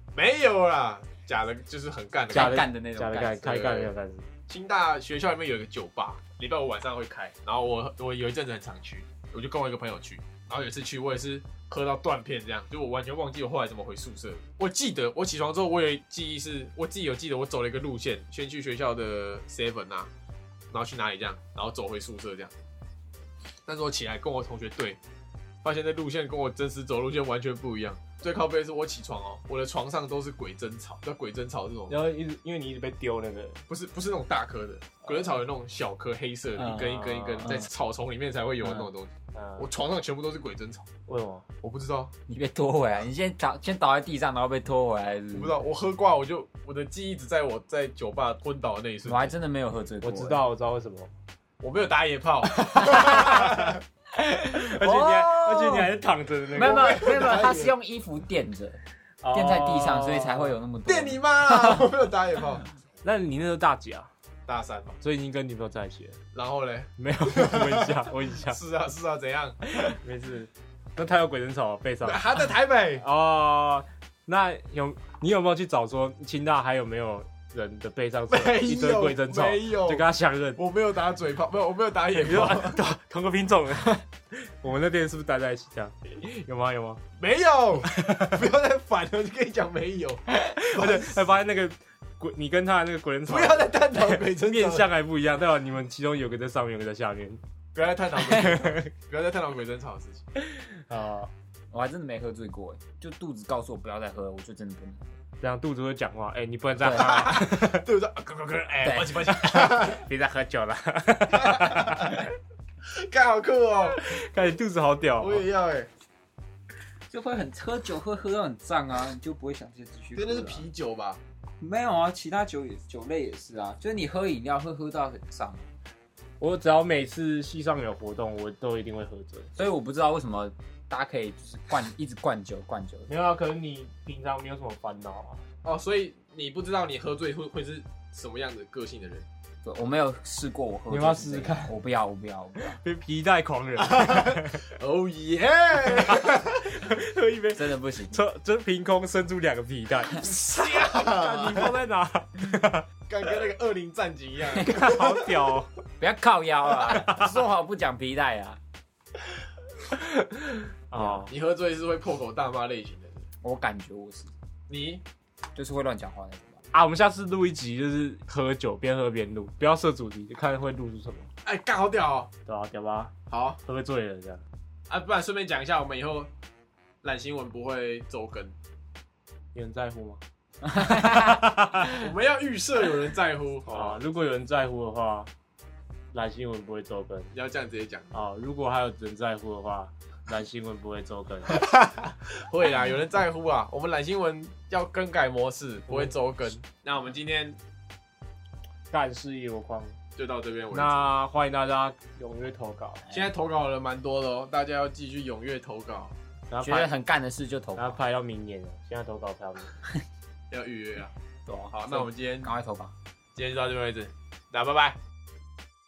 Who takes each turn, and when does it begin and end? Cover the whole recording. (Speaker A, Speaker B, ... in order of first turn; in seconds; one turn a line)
Speaker A: 0.1-2.6
Speaker B: 2.3-3.6
Speaker C: 2.3-4.3
Speaker A: 3.4-3.9
Speaker A: 4.5-20.1
Speaker A: 20.7-22.5
Speaker A: 23.7-25.0
Speaker A: 25.6-32.0
Speaker C: 31.9-33.6
Speaker A: 33.7-40.9
Speaker C: 35.1-35.4
Speaker B: 36.6-36.9
Speaker C: 36.6-37.6
Speaker C: 39.3-39.7
Speaker C: 41.1-41.5
Speaker A: 41.6-42.1
Speaker B: 42.3-45.5
Speaker A: 45.3-49.4
Speaker B: 49.0-50.4
Speaker C: 50.0-51.1
Speaker A: 51.6-53.8
Speaker B: 52.7-53.6
Speaker C: 53.1-53.4
Speaker B: 54.2-55.9
Speaker C: 54.5-57.1
Speaker A: 56.5-57.8
Speaker B: 56.5-58.8
Speaker C: 59.2-60.6
Speaker B: 59.3-61.8
Speaker A: 60.9-62.7
Speaker C: 63.0-64.1
Speaker A: 64.5-65.0
Speaker C: 65.0-66.2
Speaker A: 66.3-69.6
Speaker C: 67.0-68.6
Speaker C: 69.8-72.2
Speaker A: 72.0-73.0
Speaker C: 73.0-80.6
Speaker A: 78.3-80.0
Speaker A: 80.6-82.8
Speaker C: 82.2-84.0
Speaker C: 84.6-87.0
Speaker A: 87.2-91.2
Speaker C: 87.8-88.4
Speaker C: 90.4-97.4
Speaker A: 93.3-94.9
Speaker A: 97.8-100.2
Speaker C: 98.3-98.9
Speaker C: 100.9-101.3
Speaker B: 101.7-105.0
Speaker C: 105.4-107.9
Speaker B: 106.8-107.2
Speaker A: 106.9-110.1
Speaker B: 108.8-109.6
Speaker C: 109.5-112.2
Speaker A: 111.3-112.2
Speaker A: 113.0-114.0
Speaker C: 114.0-115.5
Speaker A: 115.2-115.9
Speaker B: 117.1-120.7
Speaker A: 120.2-121.2
Speaker B: 121.6-125.7
Speaker C: 126.4-129.5
Speaker B: 129.6-133.1
Speaker C: 133.1-135.4
Speaker A: 135.6-139.3
Speaker B: 139.6-142.8
Speaker C: 140.9-141.7
Speaker C: 142.6-144.6
Speaker A: 144.1-146.7
Speaker C: 146.2-152.9
Speaker B: 147.6-148.2
Speaker A: 150.2-151.7
Speaker A: 153.1-155.2
Speaker B: 154.6-155.1
Speaker C: 154.7-155.7
Speaker B: 156.0-158.6
Speaker C: 156.7-157.4
Speaker C: 159.9-161.3
Speaker B: 161.0-161.2
Speaker A: 161.3-163.2
Speaker B: 163.4-164.3
Speaker A: 164.7-165.0
Speaker B: 165.6-166.6
Speaker C: 166.7-171.3
Speaker A: 171.4-172.3
Speaker C: 172.5-173.1
Speaker A: 173.3-173.6
Speaker C: 173.7-174.4
Speaker A: 174.9-176.3
Speaker A: 177.0-178.6
Speaker C: 179.5-180.2
Speaker B: 180.6-181.5
Speaker C: 181.0-181.9
Speaker A: 181.9-184.0
Speaker C: 183.7-185.3
Speaker C: 186.1-187.3
Speaker A: 187.3-188.2
Speaker C: 188.1-191.6
Speaker A: 191.5-197.6
Speaker C: 195.9-196.1
Speaker C: 198.9-200.0
Speaker A: 200.2-201.1
Speaker C: 200.7-203.1
Speaker A: 203.1-206.2
Speaker C: 206.5-206.9
Speaker B: 206.6-208.0
Speaker C: 207.8-209.7
Speaker A: 210.5-211.1
Speaker B: 211.5-212.9
Speaker A: 211.7-212.5
Speaker A: 213.3-215.0